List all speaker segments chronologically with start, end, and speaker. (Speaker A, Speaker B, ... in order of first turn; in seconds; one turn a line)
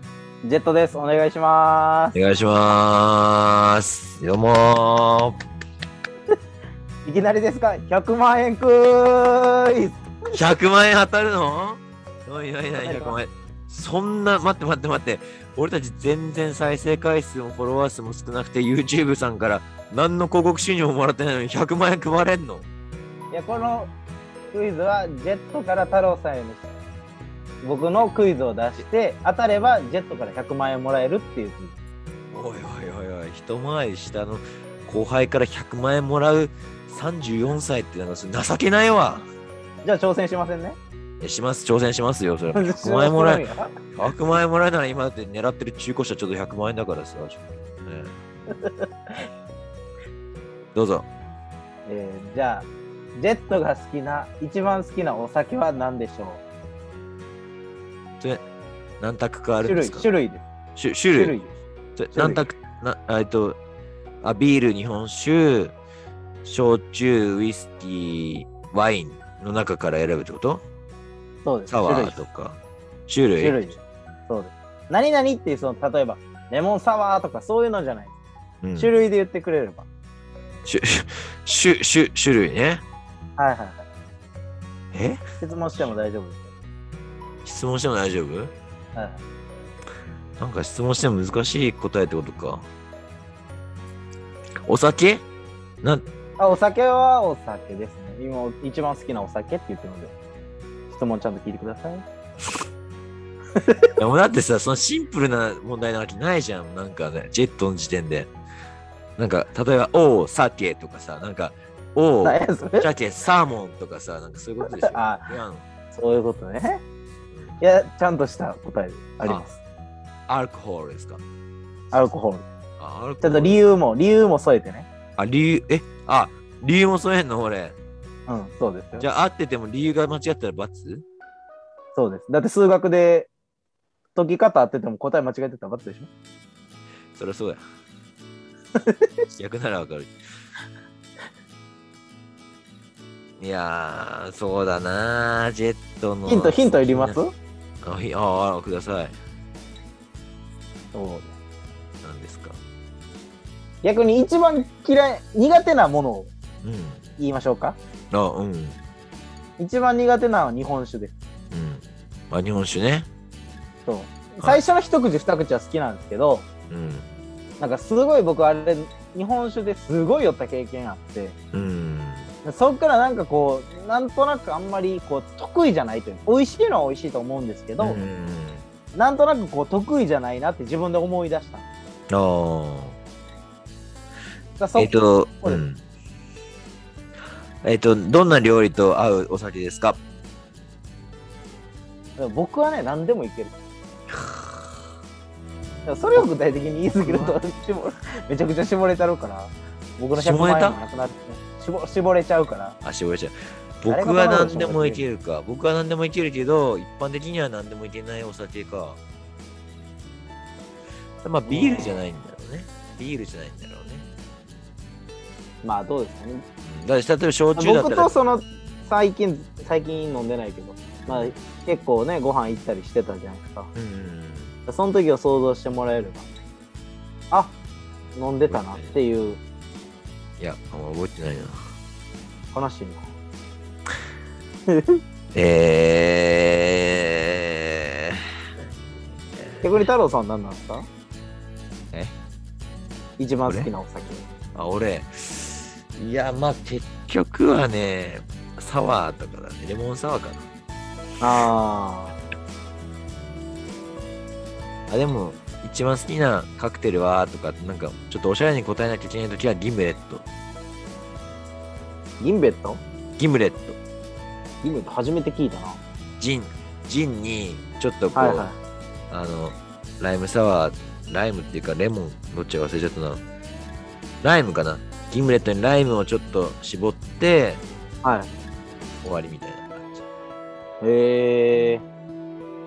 Speaker A: 0.4-2.2
Speaker B: 2.1-5.4
Speaker A: 7.0-10.0
Speaker B: 10.3-22.7
Speaker A: 12.8-13.2
Speaker A: 23.3-23.9
Speaker A: 24.5-26.7
Speaker A: 27.6-31.8
Speaker B: 32.3-39.3
Speaker A: 39.8-40.8
Speaker B: 41.2-48.2
Speaker A: 42.5-43.8
Speaker A: 48.6-48.9
Speaker B: 50.7-51.1
Speaker A: 51.9-56.4
Speaker B: 59.0-60.1
Speaker A: 59.6-60.4
Speaker B: 60.8-61.4
Speaker A: 61.1-61.5
Speaker B: 62.0-63.6
Speaker A: 62.1-62.4
Speaker B: 64.2-65.8
Speaker B: 66.4-70.6
Speaker A: 71.5-72.2
Speaker B: 71.7-73.6
Speaker A: 73.4-78.1
Speaker B: 78.6-78.9
Speaker A: 78.8-79.9
Speaker B: 80.7-82.8
Speaker A: 83.4-83.9
Speaker B: 84.9-85.2
Speaker A: 85.4-86.5
Speaker B: 87.5-88.5
Speaker A: 89.0-89.2
Speaker B: 90.4-92.7
Speaker B: 94.7-95.2
Speaker A: 96.4-100.1
Speaker A: 100.9-102.0
Speaker A: 103.6-103.9
Speaker B: 104.0-108.3
Speaker B: 109.2-115.7
Speaker A: 112.2-112.9
Speaker A: 114.6-115.3
Speaker A: 115.9-116.8
Speaker B: 117.3-117.6
Speaker A: 117.6-119.6
Speaker B: 120.3-121.2
Speaker A: 121.9-122.5
Speaker B: 122.8-123.6
Speaker A: 123.2-124.9
Speaker B: 125.2-127.8
Speaker A: 128.3-129.1
Speaker B: 129.0-131.1
Speaker A: 131.9-133.3
Speaker A: 134.2-136.1
Speaker B: 137.2-137.6
Speaker A: 138.8-139.1
Speaker B: 139.4-140.1
Speaker B: 143.4-147.2
Speaker A: 146.3-147.3
Speaker B: 147.8-149.2
Speaker A: 150.9-151.3
Speaker B: 152.0-152.6
Speaker A: 153.8-156.3
Speaker B: 156.6-157.0
Speaker A: 157.2-157.8
Speaker B: 158.1-158.8
Speaker A: 159.6-161.2
Speaker B: 161.5-163.1
Speaker A: 163.9-166.5
Speaker B: 166.7-167.1
Speaker A: 167.6-171.4
Speaker B: 171.5-172.3
Speaker A: 172.4-178.0
Speaker B: 177.8-178.6
Speaker A: 178.9-181.7
Speaker B: 182.1-183.0
Speaker A: 184.6-185.6
Speaker B: 184.8-185.8
Speaker B: 187.6-190.0
Speaker A: 192.2-193.5
Speaker B: 194.1-194.8
Speaker A: 195.9-202.8
Speaker B: 197.0-197.4
Speaker B: 200.1-200.8
Speaker B: 202.8-209.0
Speaker A: 203.9-205.0
Speaker B: 211.2-214.1
Speaker A: 211.5-212.0
Speaker A: 215.6-216.4
Speaker B: 216.6-218.1
Speaker A: 217.6-223.7
Speaker B: 221.1-221.3
Speaker B: 223.8-224.6
Speaker A: 224.7-226.3
Speaker A: 228.2-229.4
Speaker B: 228.5-228.9
Speaker B: 230.4-231.6
Speaker A: 232.5-233.1
Speaker A: 234.7-235.0
Speaker B: 235.3-238.3
Speaker B: 239.3-239.9
Speaker A: 239.6-240.9
Speaker A: 243.2-244.2
Speaker B: 244.6-250.4
Speaker A: 251.2-252.2
Speaker B: 254.9-260.2
Speaker A: 262.2-262.8
Speaker B: 263.2-263.8
Speaker A: 264.6-265.8
Speaker B: 266.2-268.5
Speaker A: 268.1-268.6
Speaker B: 269.1-273.2
Speaker B: 274.2-277.6
Speaker A: 278.0-278.3
Speaker B: 279.0-280.0
Speaker A: 280.8-281.8